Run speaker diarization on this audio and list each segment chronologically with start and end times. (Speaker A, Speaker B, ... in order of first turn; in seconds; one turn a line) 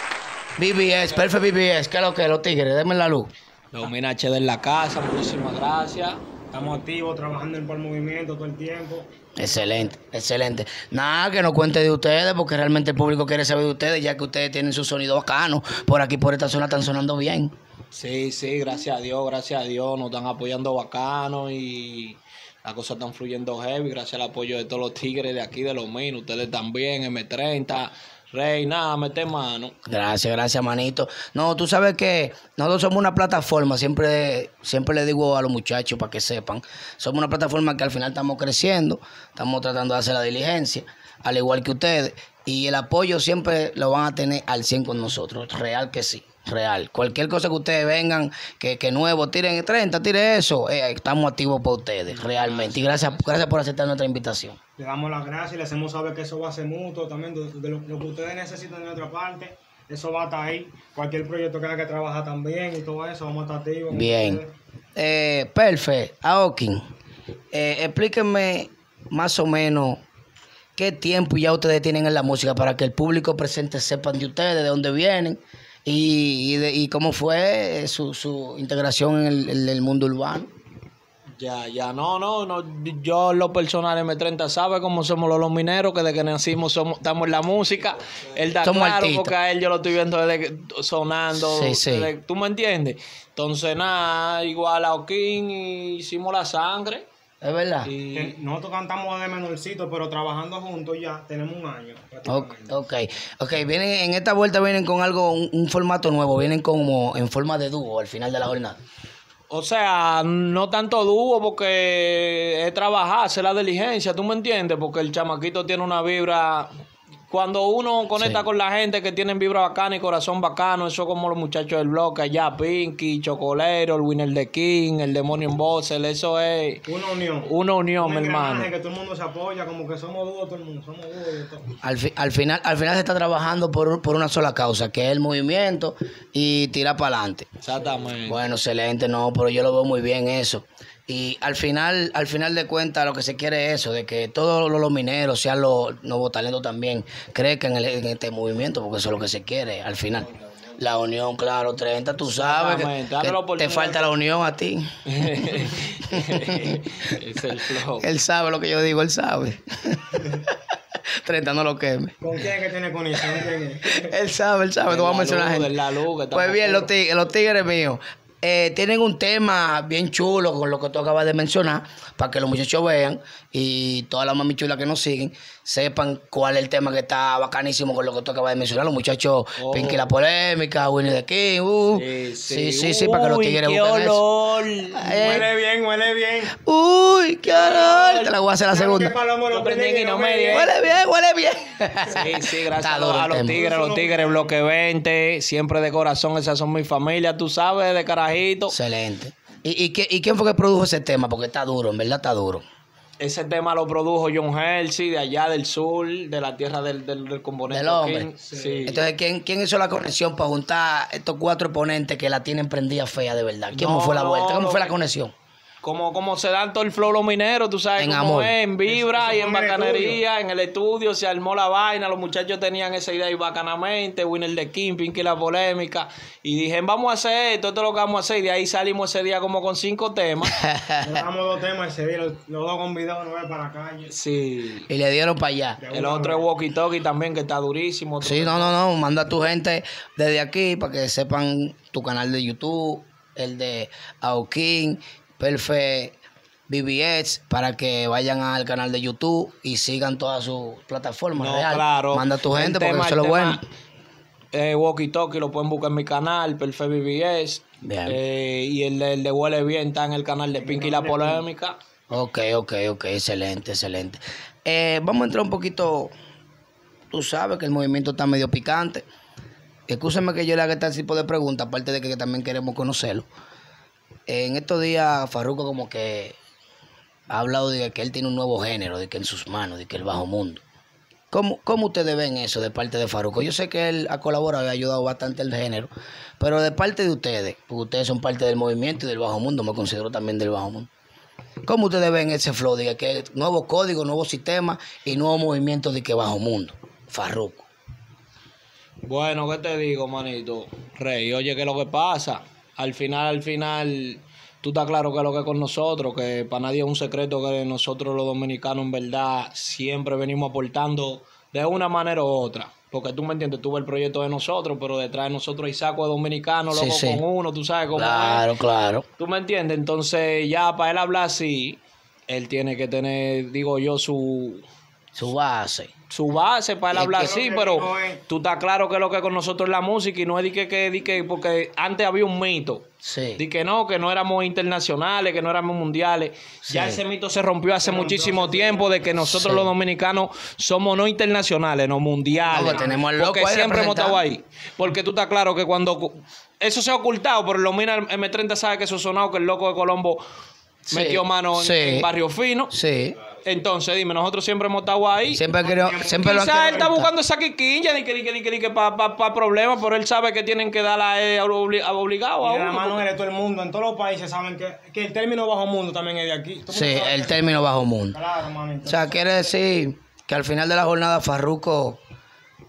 Speaker A: 0.6-3.3
Speaker B: 3.7-6.2
Speaker C: 6.5-9.1
Speaker A: 9.3-17.5
Speaker B: 17.9-29.7
Speaker A: 29.9-54.6
Speaker B: 52.1-53.3
Speaker C: 54.8-64.5
Speaker A: 63.9-64.4
Speaker A: 65.0-66.8
Speaker A: 67.5-70.0
Speaker A: 70.8-80.5
Speaker B: 81.4-97.0
Speaker A: 88.6-89.3
Speaker A: 91.3-92.1
Speaker A: 97.4-97.9
Speaker B: 97.8-98.3
Speaker C: 98.1-102.8
Speaker A: 102.3-108.8
Speaker B: 109.5-116.7
Speaker B: 117.3-126.8
Speaker A: 118.2-118.4
Speaker C: 126.8-131.7
Speaker B: 127.4-128.7
Speaker A: 131.8-137.5
Speaker B: 137.6-138.4
Speaker A: 138.2-157.0
Speaker B: 152.3-154.0
Speaker B: 155.1-158.1
Speaker A: 157.8-160.6
Speaker A: 161.2-162.2
Speaker C: 162.2-164.1
Speaker A: 163.8-165.7
Speaker B: 164.8-166.9
Speaker A: 166.3-184.2
Speaker B: 179.6-180.0
Speaker B: 181.9-185.2
Speaker A: 184.9-185.5
Speaker C: 185.1-186.5
Speaker A: 186.5-189.1
Speaker C: 187.5-190.7
Speaker B: 189.5-190.7
Speaker A: 190.5-193.6
Speaker B: 192.2-198.8
Speaker C: 193.5-194.6
Speaker A: 198.7-202.6
Speaker B: 203.2-209.0
Speaker A: 207.7-208.3
Speaker C: 208.4-208.9
Speaker A: 208.8-215.3
Speaker B: 213.7-214.9
Speaker B: 215.8-230.6
Speaker A: 218.0-218.5
Speaker C: 218.8-220.2
Speaker A: 230.5-231.2
Speaker C: 231.0-234.1
Speaker B: 234.1-234.9
Speaker A: 234.9-235.8
Speaker C: 235.8-236.5
Speaker B: 235.9-238.8
Speaker A: 238.2-246.1
Speaker A: 246.7-253.6
Speaker B: 251.3-253.6
Speaker B: 254.5-261.8
Speaker A: 257.8-258.2
Speaker C: 260.6-261.4
Speaker A: 262.1-266.1
Speaker A: 267.1-269.0
Speaker A: 269.9-273.3
Speaker A: 274.3-276.4
Speaker A: 277.3-280.6
Speaker A: 281.3-290.9
Speaker A: 291.6-297.7
Speaker B: 299.0-318.4
Speaker A: 316.7-317.2
Speaker A: 317.9-319.0
Speaker B: 319.2-324.6
Speaker A: 325.1-325.9
Speaker B: 326.1-332.9
Speaker A: 326.9-327.4
Speaker C: 327.1-328.2
Speaker A: 333.0-333.4
Speaker B: 333.4-350.2
Speaker A: 336.7-337.0
Speaker C: 337.8-339.0
Speaker A: 339.2-339.7
Speaker C: 342.4-343.0
Speaker A: 342.5-344.2
Speaker B: 350.9-352.7
Speaker A: 350.9-352.1
Speaker A: 352.7-353.2
Speaker B: 353.4-355.4
Speaker A: 355.3-357.1
Speaker C: 355.6-356.8
Speaker B: 356.2-363.0
Speaker C: 362.4-367.5
Speaker A: 366.7-368.2
Speaker C: 368.1-369.2
Speaker A: 368.8-372.0